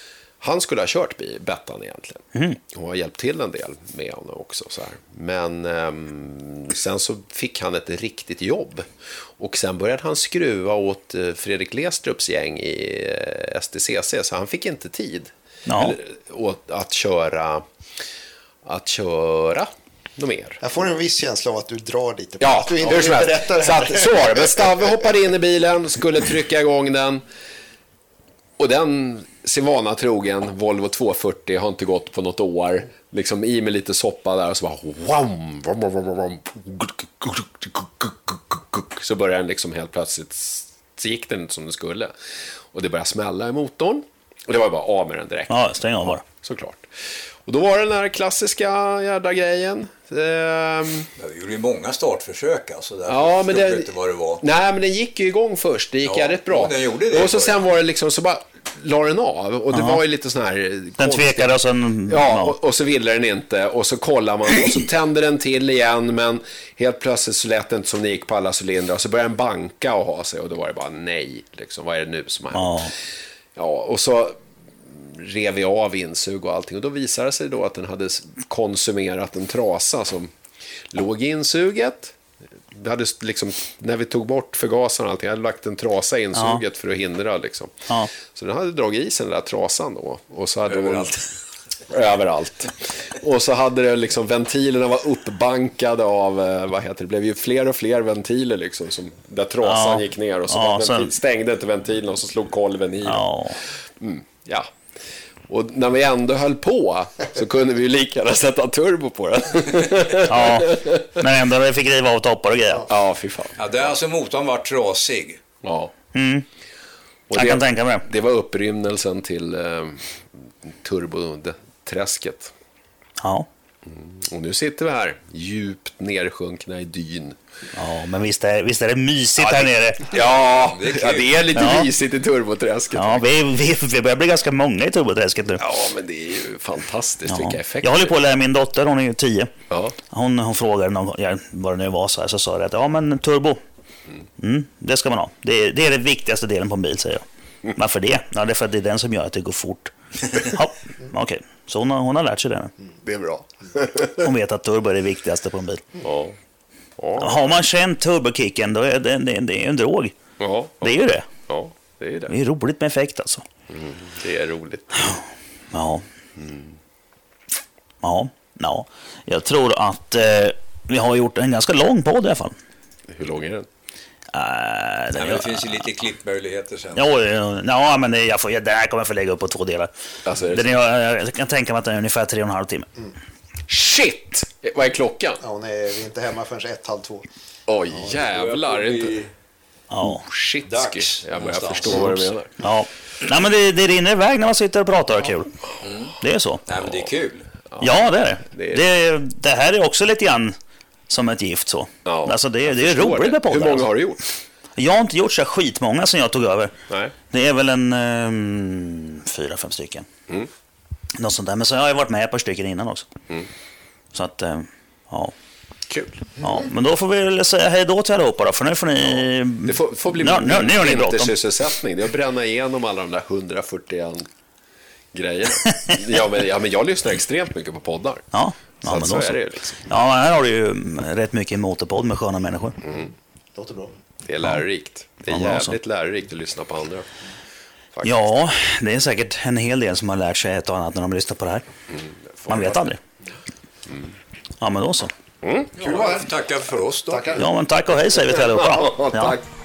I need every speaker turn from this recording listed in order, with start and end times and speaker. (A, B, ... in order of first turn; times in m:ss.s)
0:00.4-0:17.6 A
0:15.7-0:16.0 B
0:18.6-0:20.6 A
0:20.6-0:25.1 C
0:22.4-0:27.2 A
0:28.6-0:42.1 A
0:42.7-0:46.9 A
0:45.5-0:46.2 B
0:47.4-0:51.1 A
0:51.2-0:54.4 D
0:53.1-1:01.6 A
0:56.0-0:57.6 D
0:59.7-1:00.0 B
1:01.0-1:02.6 B
1:02.1-1:12.9 A
1:12.5-1:12.9 B
1:13.6-1:20.3 A
1:20.9-1:22.2 A
1:22.7-1:31.2 A
1:26.4-1:26.6 B
1:30.7-1:31.2 D
1:31.9-1:43.3 A
1:39.6-1:41.1 B
1:43.0-1:43.6 B
1:44.0-1:44.7 A
1:45.5-1:51.2 A
1:50.2-1:52.9 B
1:52.9-1:53.7 A
1:53.6-1:55.4 D
1:55.6-1:55.9 A
1:56.1-1:56.4 B
1:57.3-2:00.0 A
1:57.3-1:58.1 B
2:00.6-2:02.5 A
2:03.2-2:03.5 B
2:03.9-2:07.4 A
2:07.7-2:10.1 B
2:09.4-2:13.2 A
2:10.1-2:11.6 D
2:11.6-2:11.9 B
2:12.9-2:15.6 B
2:15.6-2:18.2 A
2:17.3-2:19.6 B
2:19.7-2:20.0 A
2:20.1-2:23.6 B
2:24.4-2:32.7 B
2:33.0-2:34.3 A
2:34.2-2:35.9 B
2:36.0-2:36.4 A
2:37.0-2:37.5 A
2:37.2-2:40.2 B
2:40.4-2:42.3 A
2:40.8-2:41.3 B
2:42.3-2:43.4 B
2:43.7-2:45.2 A
2:45.7-2:46.0 B
2:46.4-2:46.7 A
2:48.0-2:52.6 B
2:53.1-2:53.7 A
2:54.3-2:55.9 B
2:55.1-2:57.1 D
2:57.0-2:59.9 B
3:00.3-3:00.7 A
3:00.4-3:02.9 B
3:03.7-3:05.4 A
3:05.4-3:07.3 C
3:07.7-3:09.2 A
3:08.1-3:09.3 D
3:09.9-3:10.2 B
3:10.0-3:12.6 A
3:10.7-3:12.3 D
3:12.6-3:15.5 B
3:15.8-3:17.5 D
3:16.2-3:16.6 B
3:17.7-3:18.8 A
3:17.8-3:20.6 B
3:21.1-3:23.9 B
3:22.0-3:24.3 A
3:24.8-3:26.8 B
3:26.9-3:27.1 A
3:27.3-3:30.1 B
3:31.2-3:33.1 B
3:34.1-3:35.3 B
3:35.9-3:36.3 A
3:36.4-3:41.3 B
3:39.1-3:44.3 A
3:45.1-3:48.3 A
3:48.3-3:52.8 B
3:48.8-3:49.9 A
3:52.8-3:53.1 A
3:53.6-3:53.9 C
3:54.2-3:57.1 A
3:55.3-3:55.8 B
3:58.0-4:01.6 B
4:01.9-4:02.9 A
4:02.5-4:03.0 B
4:03.9-4:04.1 A
4:04.6-4:05.1 B
4:05.4-4:05.8 A
4:05.8-4:07.4 D
4:05.8-4:06.3 C
4:07.1-4:07.5 C
4:07.4-4:09.4 B
4:08.2-4:09.4 A